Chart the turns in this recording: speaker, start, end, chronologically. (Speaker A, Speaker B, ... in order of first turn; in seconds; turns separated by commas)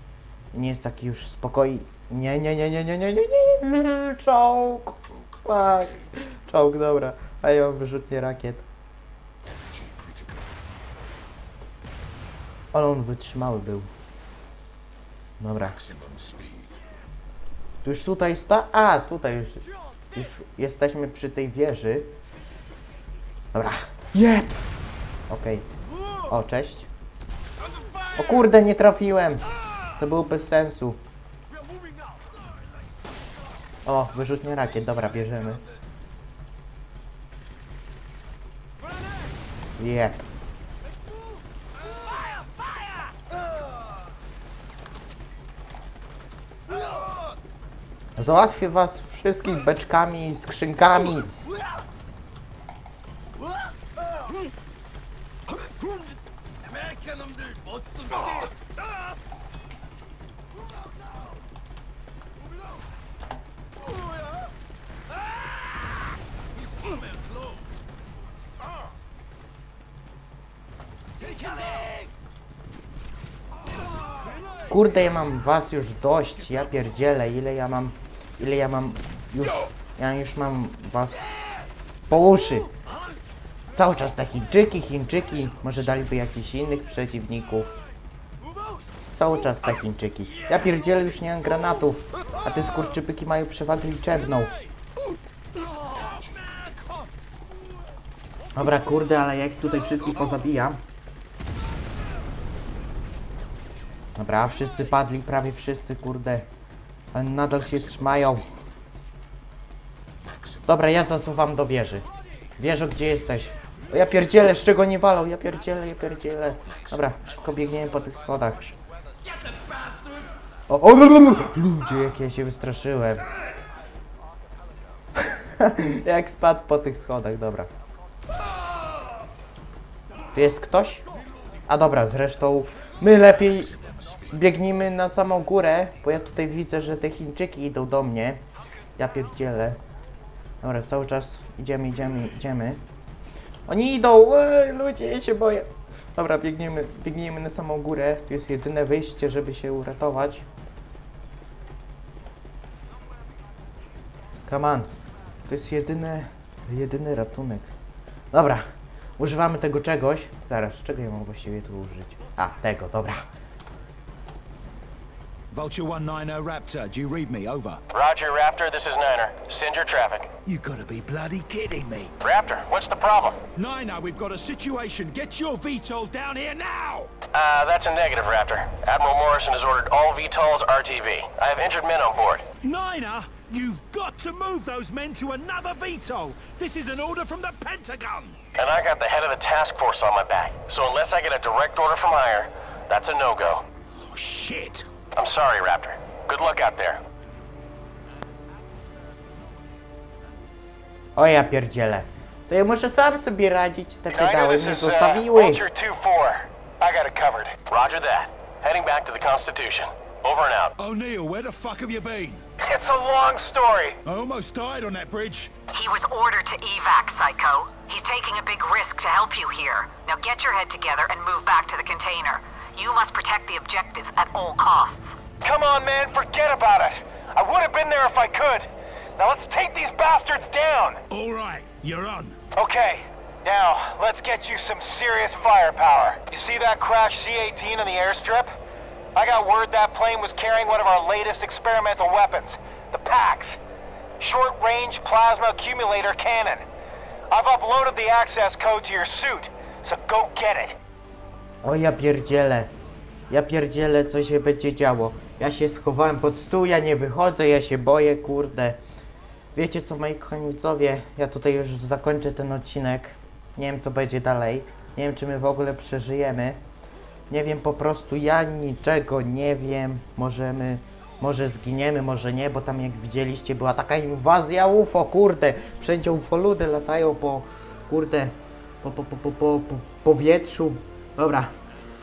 Speaker A: 0.5-8.7, Speaker A: 12.7-13.9, Speaker A: 15.4-15.8, Speaker A: 17.8-22.1, Speaker A: 23.5-24.6, Speaker A: 25.3-25.7, Speaker A: 26.2-26.9, Speaker A: 28.1-31.0, Speaker A: 33.9-35.6, Speaker A: 39.8-40.2, Speaker A: 48.2-51.3, Speaker A: 74.7-81.4, Speaker A: 82.1-82.7, Speaker A: 83.7-87.7, Speaker A: 89.1-94.5, Speaker A: 98.5-100.8, Speaker A: 104.2-106.5, Speaker A: 107.1-108.5, Speaker A: 110.7-112.1, Speaker A: 112.6-118.6, Speaker A: 120.7-123.2, Speaker A: 125.3-127.7, Speaker A: 130.3-131.0, Speaker A: 131.7-133.8, Speaker A: 134.3-138.4, Speaker A: 139.0-139.8, Speaker A: 140.6-142.8, Speaker A: 143.7-150.5, Speaker A: 154.5-154.9, Speaker A: 155.5-157.7, Speaker A: 158.3-158.7, Speaker A: 159.2-163.3, Speaker B: 165.5-167.8, Speaker C: 167.9-170.3, Speaker B: 170.5-172.2, Speaker C: 172.2-173.4, Speaker B: 173.6-177.1, Speaker C: 177.3-182.5, Speaker B: 182.6-188.4, Speaker C: 188.6-193.6, Speaker B: 194.1-194.9, Speaker C: 195.1-197.0, Speaker A: 201.2-205.7, Speaker C: 204.1-210.7, Speaker D: 207.2-207.5, Speaker B: 210.8-212.4, Speaker C: 212.6-214.0, Speaker B: 214.1-215.5, Speaker E: 215.7-225.2, Speaker D: 225.4-228.7, Speaker D: 229.2-231.0, Speaker C: 229.4-230.1, Speaker B: 231.1-232.4, Speaker D: 232.6-238.5, Speaker C: 235.5-236.3, Speaker D: 239.2-243.6, Speaker D: 244.2-246.7, Speaker D: 247.3-250.8, Speaker A: 251.6-252.7, Speaker A: 253.3-258.8, Speaker A: 259.6-266.6, Speaker A: 267.3-281.5